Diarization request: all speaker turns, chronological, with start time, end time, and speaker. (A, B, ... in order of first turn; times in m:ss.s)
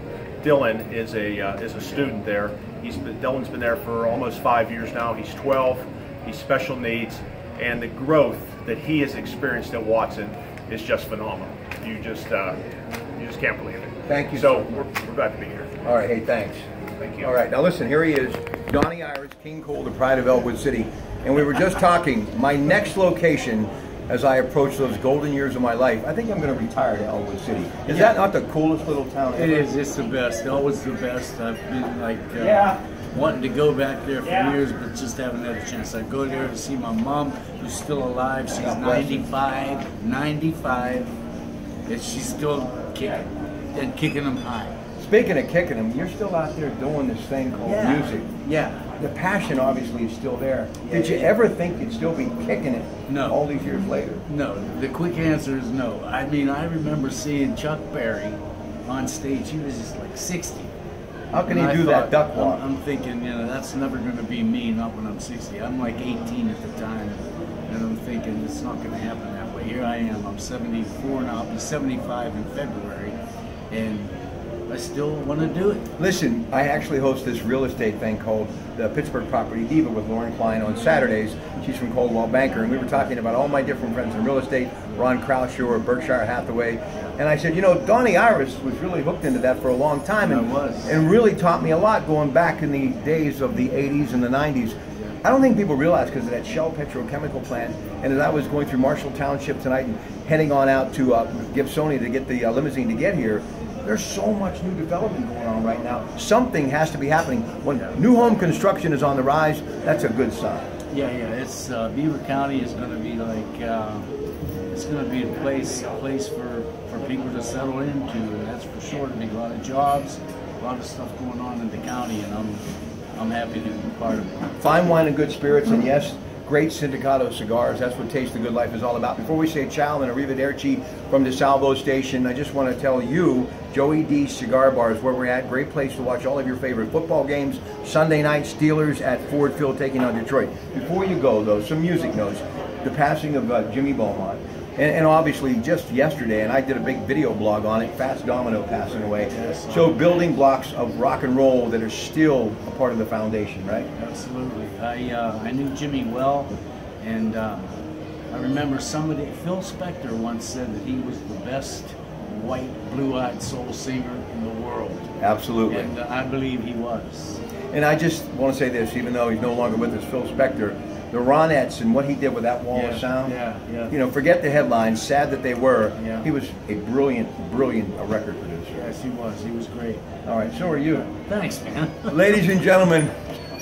0:00.4-0:12.6 A
0:13.2-0:15.8 A
0:14.1-0:14.7 B
0:15.8-0:16.6 B
0:17.0-0:17.3 A
0:17.2-0:29.7 B
0:29.3-0:41.1 C
0:32.4-0:32.8 A
0:38.5-0:39.2 B
0:41.9-0:44.8 C
0:45.0-0:48.3 B
0:47.6-0:48.9 C
0:49.0-0:54.2 B
0:50.8-0:51.3 C
0:53.1-0:53.4 C
0:54.2-1:00.7 C
1:01.3-1:02.6 B
1:01.4-1:13.2 C
1:13.7-1:14.1 C
1:14.7-1:15.8 C
1:16.0-1:50.7 B
1:30.2-1:31.0 C
1:50.9-1:54.0 C
1:54.7-2:02.6 C
2:03.1-2:04.6 C
2:04.6-2:33.9 B
2:29.2-2:30.0 C
2:33.9-2:45.1 C
2:45.2-2:45.9 B
2:45.7-2:47.4 C
2:47.7-2:53.4 B
2:52.7-2:53.9 C
2:53.9-2:58.8 B
2:56.0-2:56.3 C
2:58.7-3:00.0 C
3:00.2-3:01.1 B
3:01.1-3:02.2 C
3:02.1-3:03.1 B